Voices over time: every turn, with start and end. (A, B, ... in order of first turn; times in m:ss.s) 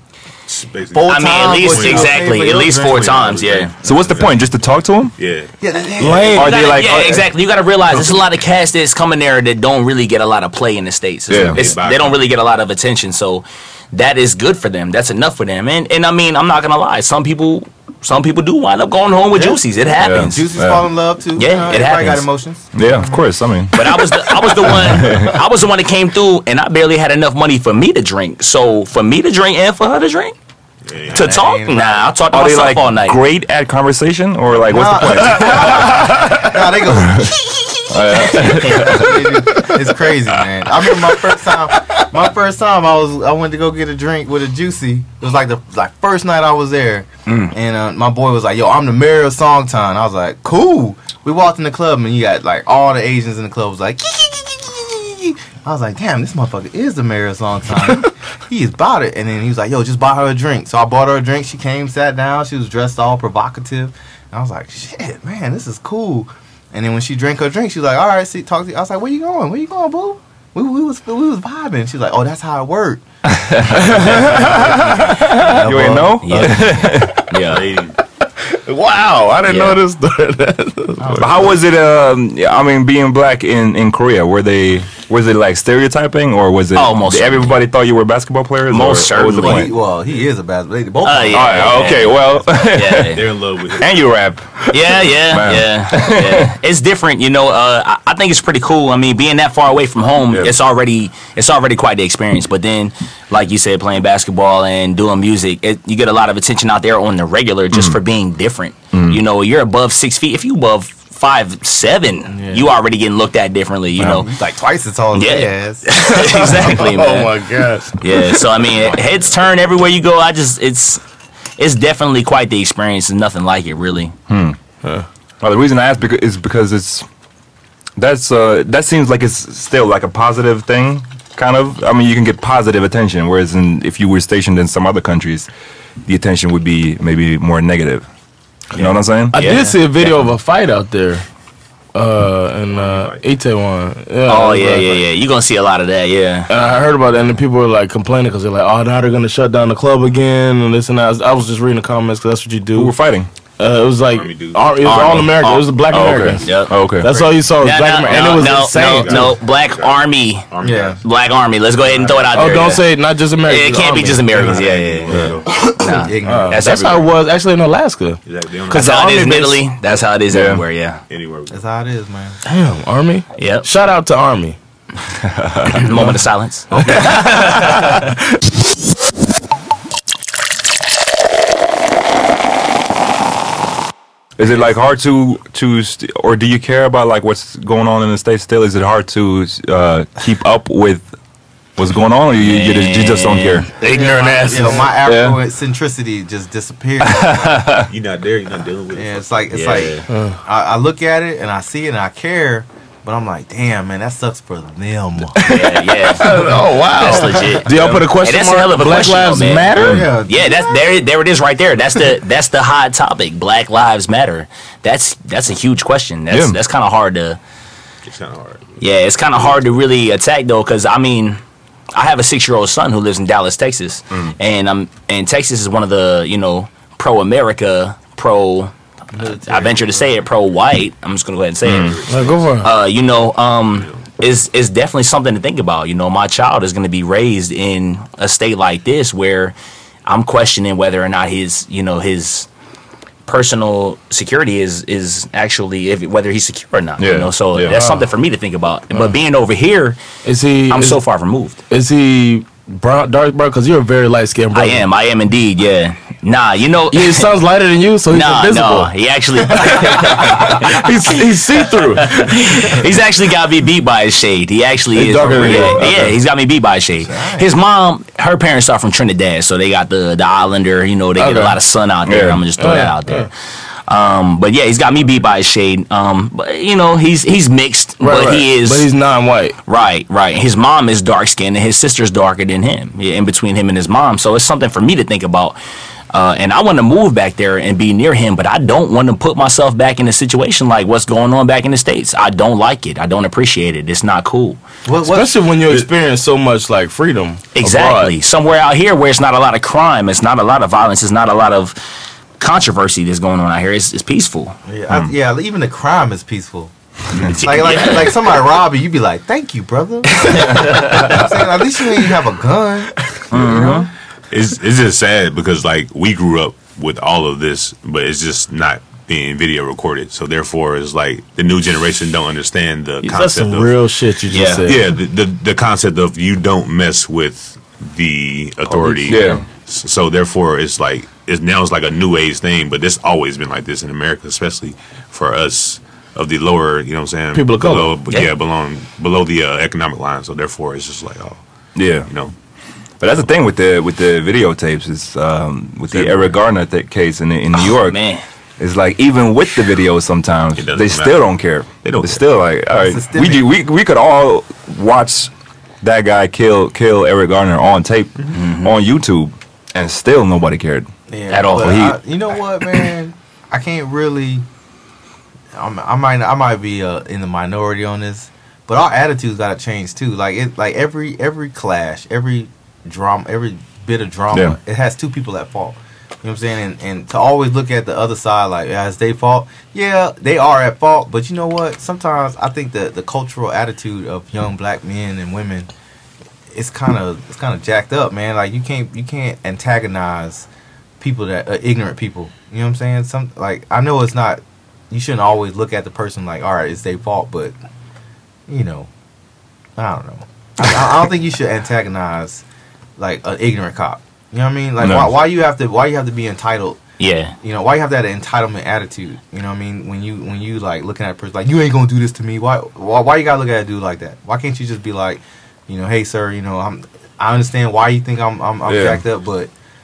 0:00.4-0:04.2 A
0:00.9-0:04.3 B
0:01.1-0:03.7 C
0:03.8-0:05.1 D
0:05.2-0:05.5 A
0:05.6-0:06.8 B
0:06.0-0:06.5 E
0:06.4-0:07.2 D
0:06.4-0:20.4 C
0:08.0-0:08.2 A
0:11.3-0:11.7 D
0:11.3-0:12.2 A
0:19.3-0:19.6 B
0:20.0-0:20.8 D
0:20.2-0:23.2 B
0:21.4-0:22.2 C
0:22.7-0:25.4 D
0:23.7-0:30.3 C
0:30.8-0:31.5 A
0:31.1-0:33.2 C
0:31.2-0:32.1 B
0:32.3-0:36.3 D
0:34.6-0:37.3 B
0:36.0-0:36.4 E
0:37.0-0:37.3 D
0:37.9-0:39.2 D
0:38.2-1:13.0 B
0:38.4-0:39.0 C
0:47.3-0:47.5 C
1:13.3-1:17.1 D
1:13.7-1:16.6 B
1:16.2-1:17.6 C
1:17.5-1:17.9 A
1:18.6-1:21.3 E
1:19.5-1:19.8 C
1:21.0-1:21.6 B
1:21.2-1:29.8 D
1:26.7-1:27.6 C
1:28.7-1:29.7 C
1:29.2-1:32.0 B
1:31.0-1:33.2 C
1:31.3-1:33.2 D
1:33.1-1:33.9 A
1:33.8-1:34.7 D
1:34.7-1:54.3 C
1:35.3-1:36.4 D
1:40.3-1:40.6 D
1:47.7-1:48.0 D
1:48.9-1:49.2 D
1:52.3-1:52.6 B
1:54.0-1:56.4 B
1:55.1-1:57.3 C
1:56.1-1:58.5 E
1:58.0-2:01.0 C
2:01.6-2:04.1 C
2:04.3-2:04.6 D
2:05.4-2:07.1 D
2:08.0-2:15.5 D
2:16.0-2:18.1 D
2:18.7-2:19.4 D
2:18.8-2:20.2 C
2:19.3-2:21.2 E
2:21.9-2:25.0 E
2:22.7-2:23.2 A
2:24.3-2:26.5 C
2:26.5-2:32.9 E
2:32.7-2:33.3 D
2:33.6-2:39.4 E
2:34.1-2:36.2 A
2:34.8-2:35.6 C
2:35.9-2:37.1 D
2:36.4-2:36.8 C
2:37.1-2:37.4 B
2:37.6-2:40.4 C
2:38.1-2:41.0 A
2:40.6-2:41.0 B
2:41.0-2:42.9 C
2:41.8-2:42.8 A
2:42.3-2:44.6 E
2:43.4-2:47.1 C
2:44.2-2:45.5 A
2:45.6-2:46.6 B
2:46.2-2:49.7 E
2:48.2-2:49.1 A
2:48.7-2:51.0 C
2:50.3-2:50.6 D
2:51.1-2:51.5 A
2:51.5-2:52.4 B
2:52.4-2:54.6 E
2:53.4-2:53.7 C
2:55.2-2:55.8 D
2:55.8-2:58.0 C
2:55.9-2:56.2 E
2:56.8-2:58.1 E
3:04.4-3:11.1 D
3:11.8-3:13.7 D
3:12.4-3:14.8 C
3:13.8-3:14.9 E
3:14.2-3:17.6 B
3:15.0-3:15.4 D
3:17.0-3:17.9 D
3:17.9-3:19.9 A
3:18.9-3:25.6 B
3:19.5-3:20.0 C
3:20.1-3:20.4 E
3:25.4-3:29.7 C
3:25.4-3:30.2 E
3:27.1-3:27.5 B
3:29.7-3:30.1 D
3:29.8-3:31.0 B
3:30.2-3:37.4 C
3:36.3-3:36.6 D
3:38.0-3:39.6 A
3:38.8-3:41.4 C
3:41.9-3:52.0 C
3:49.1-3:50.2 B
3:51.6-3:52.0 D
3:51.6-3:54.0 A
3:52.1-3:52.7 E
3:52.6-3:59.5 C
4:00.0-4:02.5 C
4:03.2-4:10.0 C
4:07.0-4:07.8 D
4:07.7-4:08.0 E
4:08.9-4:09.2 E
4:10.2-4:11.0 E
4:10.7-4:11.6 C
4:11.7-4:14.9 E
4:14.5-4:17.3 C
4:16.9-4:22.7 E
4:18.1-4:33.3 C
4:24.9-4:26.1 E
4:25.4-4:26.1 D
4:27.0-4:27.5 B
4:31.2-4:31.6 E
4:32.0-4:32.4 D
4:32.6-4:33.3 E
4:33.9-4:38.9 C
4:38.0-4:39.6 E
4:39.6-4:45.6 C
4:46.1-4:54.6 C
4:54.8-4:55.4 B
4:55.0-4:58.1 E
4:57.5-5:01.8 C
5:02.4-5:04.6 C
5:04.7-5:13.8 B
5:07.2-5:08.1 C
5:13.3-5:13.9 D
5:13.4-5:13.6 A
5:14.3-5:23.8 A
5:23.0-5:24.8 E
5:24.3-5:24.7 C
5:24.6-5:41.4 A
5:28.7-5:29.3 E
5:29.0-5:29.4 D
5:37.3-5:37.9 E
5:41.7-5:42.1 D
5:42.1-5:42.3 A
5:43.0-5:48.0 D
5:45.9-5:46.3 A
5:47.6-5:48.2 C
5:48.6-5:55.3 D
5:50.5-5:52.2 A
5:52.7-5:53.4 B
5:55.8-6:00.9 D
5:58.3-5:58.7 C
6:01.1-6:04.4 B
6:01.3-6:02.0 C
6:01.5-6:02.0 D
6:05.5-6:25.7 B
6:14.3-6:14.6 D
6:26.5-6:30.5 B
6:31.0-6:37.5 B
6:38.5-6:38.9 B
6:39.8-6:42.4 B
6:43.0-6:46.8 B
6:44.8-6:45.1 D
6:47.0-6:47.3 C
6:47.4-6:59.5 B
6:58.6-6:59.0 D